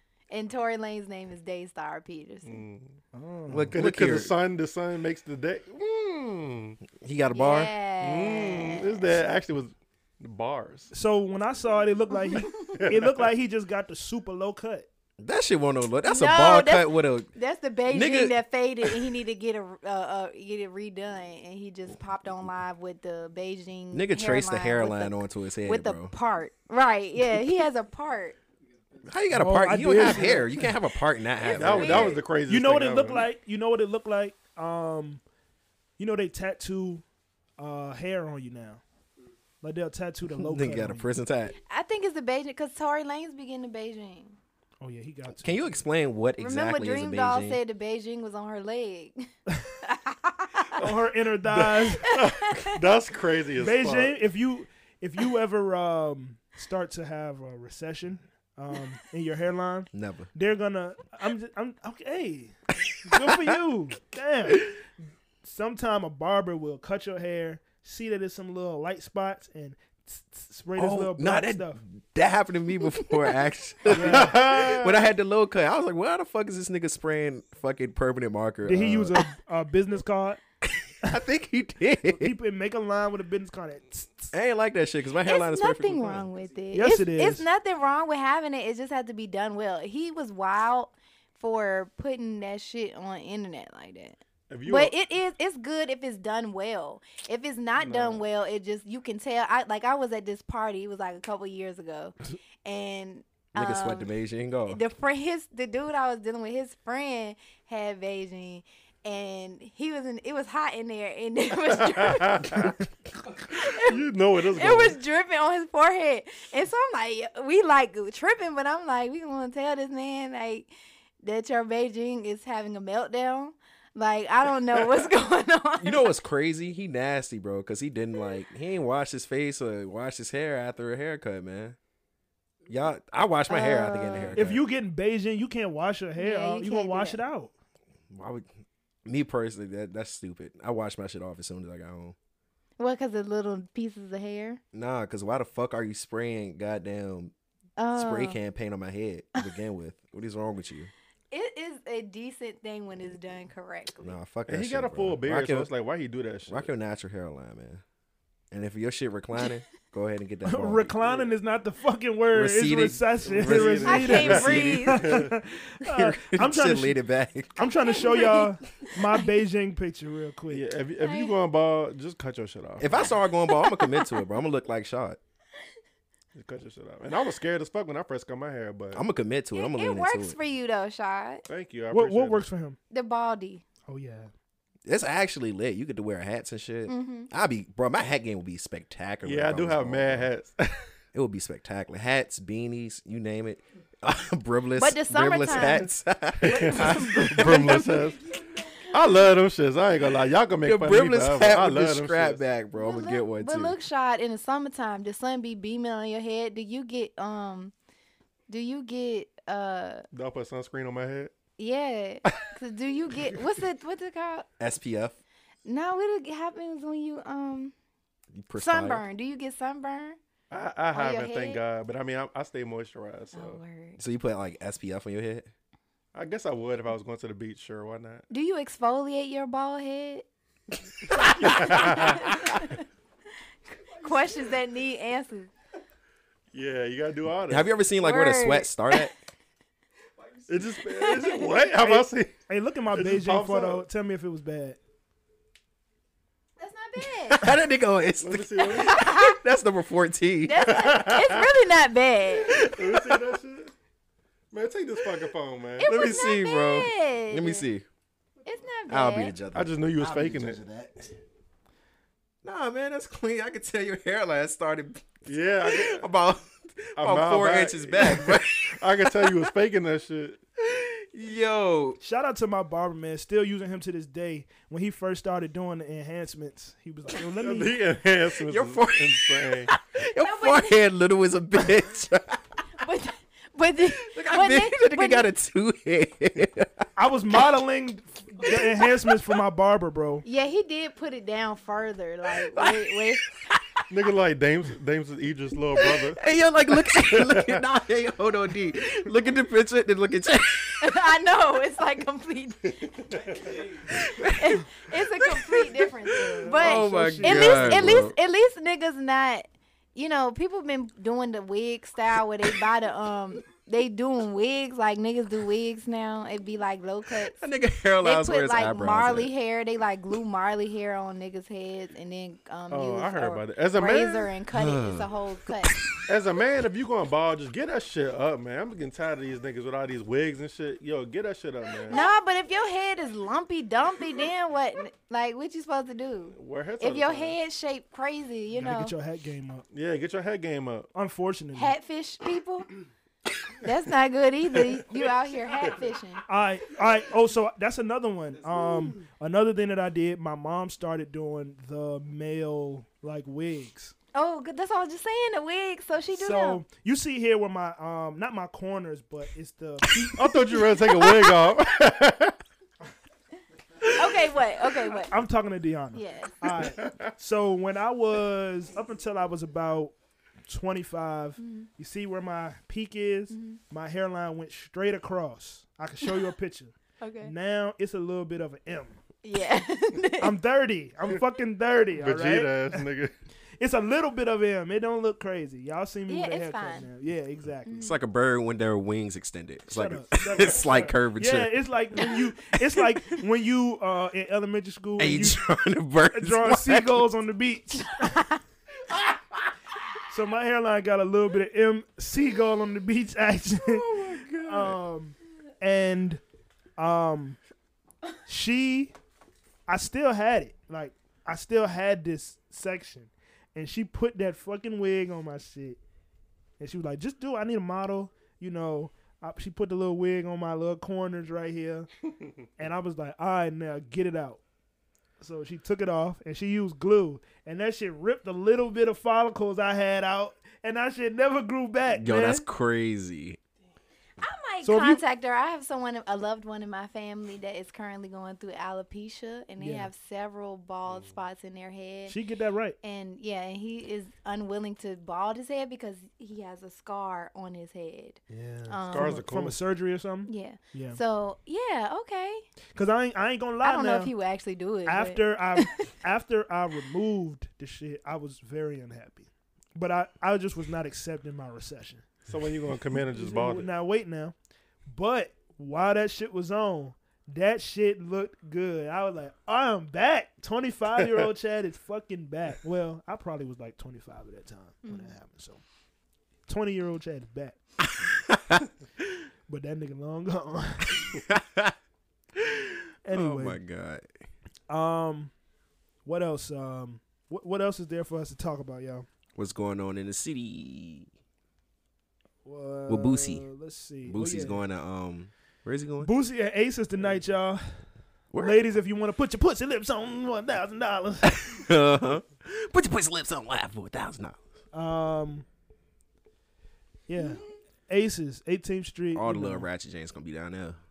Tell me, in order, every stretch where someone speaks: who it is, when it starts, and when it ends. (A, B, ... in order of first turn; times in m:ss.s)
0:00.3-0:02.6 A
0:02.4-0:03.0 B
0:03.1-0:03.7 C
0:03.5-0:04.3 D
0:03.7-0:06.8 B
0:06.9-0:07.7 D
0:07.3-0:09.1 A
0:08.0-0:10.9 B
0:10.9-0:14.9 C
0:12.3-0:12.7 A
0:12.7-0:13.3 B
0:15.2-0:17.3 D
0:16.1-0:28.4 A
0:17.9-0:18.9 D
0:23.9-0:26.1 D
0:29.0-0:32.2 D
0:29.3-0:30.7 C
0:31.4-0:32.2 A
0:31.5-0:33.3 B
0:32.5-0:35.2 C
0:36.0-0:37.0 C
0:37.6-0:38.8 C
0:39.6-0:41.1 C
0:40.3-0:41.6 D
0:41.7-0:44.4 A
0:44.8-0:45.6 C
0:45.3-0:47.6 D
0:46.4-0:49.3 A
0:49.8-0:50.7 A
0:50.8-0:52.1 C
0:50.8-0:54.2 B
0:52.1-0:52.7 A
0:53.6-1:02.5 C
0:59.9-1:00.3 D
1:03.0-1:03.6 D
1:03.0-1:04.7 C
1:05.4-1:11.8 C
1:10.8-1:19.1 D
1:13.9-1:14.4 C
1:13.9-1:15.0 B
1:18.6-1:20.4 C
1:20.8-1:22.3 D
1:22.2-1:24.3 C
1:24.3-1:26.3 D
1:25.2-1:44.1 A
1:26.7-1:27.4 C
1:34.5-1:35.0 B
1:37.8-1:38.2 B
1:43.5-1:44.8 D
1:44.7-1:52.7 A
1:51.7-1:52.7 B
1:53.5-2:00.7 A
1:53.7-1:55.0 B
2:01.2-2:06.1 A
2:05.8-2:11.8 D
2:12.7-2:14.6 D
2:13.5-2:14.4 A
2:14.4-2:17.5 C
2:16.2-2:17.2 A
2:18.1-2:22.1 D
2:22.8-2:24.6 A
2:24.7-2:27.3 D
2:27.8-2:28.4 A
2:27.9-2:30.9 D
2:31.3-2:34.2 A
2:34.0-2:35.7 D
2:34.5-2:36.7 B
2:36.5-2:37.8 D
2:38.5-2:40.9 D
2:40.4-2:47.0 C
2:42.3-2:44.8 D
2:43.2-2:45.3 B
2:43.9-2:45.1 A
2:45.8-2:47.7 D
2:47.6-2:50.6 C
2:47.9-2:48.5 A
2:50.5-2:53.0 B
2:51.0-2:51.4 A
2:52.8-2:55.2 D
2:53.5-2:54.2 A
2:56.4-2:59.0 B
2:59.0-3:00.4 D
2:59.5-3:01.4 A
3:01.5-3:02.5 B
3:01.9-3:02.8 C
3:02.9-3:03.6 A
3:03.9-3:04.3 C
3:04.8-3:10.3 D
3:06.9-3:07.3 A
3:09.2-3:10.9 B
3:11.1-3:18.1 D
3:14.8-3:15.9 A
3:16.4-3:18.2 B
3:16.4-3:18.1 A
3:18.9-3:22.4 B
3:20.6-3:23.8 D
3:22.8-3:27.7 A
3:28.5-3:30.1 A
3:30.1-3:31.3 B
3:31.6-3:34.5 A
3:34.6-3:35.2 D
3:35.6-3:37.7 A
3:38.3-3:39.0 D
3:38.6-3:40.2 A
3:40.5-3:43.6 B
3:40.9-3:41.6 A
3:43.3-3:44.0 A
3:44.0-3:45.5 D
3:46.1-3:48.2 B
3:48.3-3:50.3 A
3:51.1-3:52.8 A
3:51.4-3:52.4 B
3:53.7-3:55.5 A
3:56.5-3:57.7 B
3:57.5-3:59.1 D
3:58.0-3:59.1 A
4:00.5-4:02.3 B
4:00.8-4:01.5 A
4:01.8-4:04.8 C
4:02.9-4:03.8 B
4:06.6-4:07.5 A
4:07.0-4:10.9 D
4:08.2-4:09.1 B
4:08.6-4:09.4 A
4:10.4-4:12.6 A
4:10.7-4:11.4 B
4:12.4-4:13.2 D
4:12.6-4:13.7 B
4:14.5-4:15.9 B
4:15.8-4:17.7 A
4:15.8-4:17.8 D
4:18.4-4:19.4 A
4:18.9-4:21.1 D
4:19.5-4:20.6 B
4:22.4-4:29.5 D
4:25.3-4:26.1 B
4:27.0-4:30.4 B
4:30.6-4:32.0 D
4:32.0-4:37.8 C
4:37.4-4:39.7 B
4:38.4-4:42.6 D
4:40.2-4:40.8 A
4:42.8-4:45.3 A
4:44.1-4:46.7 D
4:47.0-4:50.2 C
4:48.4-4:49.2 D
4:50.2-4:53.3 A
4:52.3-4:53.8 D
4:53.9-4:56.2 B
4:55.8-5:00.9 D
4:57.1-4:57.6 B
5:00.8-5:02.9 A
5:03.1-5:03.5 B
5:03.9-5:04.7 D
5:04.3-5:17.4 A
5:05.2-5:08.1 D
5:06.6-5:07.8 C
5:17.2-5:19.3 D
5:18.0-5:25.8 A
5:22.7-5:24.3 B
5:24.5-5:25.9 D
5:26.1-5:32.0 B
5:31.9-5:38.9 A
5:36.3-5:37.4 B
5:38.5-5:39.6 C
5:39.7-5:40.9 B
5:41.0-5:41.7 C
5:41.6-5:42.7 A
5:43.6-5:46.2 A
5:46.3-5:54.0 C
5:54.1-5:56.6 A
5:56.1-6:00.0 C
6:00.2-6:02.4 B
6:00.9-6:01.3 A
6:03.9-6:05.2 A
6:05.1-6:10.0 C
6:05.9-6:06.5 A
6:06.8-6:07.1 B
6:10.5-6:19.0 C
6:11.4-6:11.7 A
6:13.3-6:13.6 A
6:17.0-6:17.3 A
6:19.2-6:20.4 A
6:20.2-6:22.8 C
6:21.9-6:23.1 B
6:23.6-6:27.8 C
6:26.1-6:26.9 A
6:27.7-6:28.0 A
6:27.8-6:32.1 D
6:29.7-6:35.4 C
6:35.0-6:37.1 D
6:36.1-6:38.2 C
6:38.1-6:38.4 A
6:40.1-6:43.9 C
6:43.6-6:44.8 D
6:44.4-6:46.2 C
6:46.8-6:47.4 C
6:48.3-6:48.9 C
6:49.7-6:55.8 C
6:56.6-7:01.9 C
7:02.6-7:04.4 C
7:05.2-7:12.4 C
7:11.9-7:13.4 D
7:14.2-7:22.2 A
7:14.6-7:15.0 C
7:19.6-7:19.9 C
7:22.1-7:22.8 C
7:22.8-7:29.2 A
7:28.3-7:31.0 C
7:28.9-7:29.6 B
7:30.3-7:32.5 A
7:32.7-7:34.1 C
7:33.6-7:35.9 A
7:34.9-7:42.1 C
7:42.3-7:43.7 B
7:42.9-7:44.4 C
7:44.9-7:55.6 C
7:51.0-7:51.3 B
7:54.8-7:55.1 A
7:56.5-7:57.6 C
7:58.0-7:58.7 D
7:59.5-8:01.0 C
8:01.1-8:01.7 D
8:02.4-8:04.2 D
8:03.0-8:03.6 C
8:04.7-8:05.3 C
8:06.0-8:09.1 C
8:09.4-8:11.1 D
8:12.4-8:14.6 C
8:12.9-8:13.4 D
8:14.0-8:16.1 D
8:16.0-8:17.8 C
8:18.3-8:18.6 D
8:18.4-8:21.3 C
8:21.2-8:24.4 D
8:24.7-8:25.4 C
8:27.1-8:29.7 C
8:29.1-8:30.8 D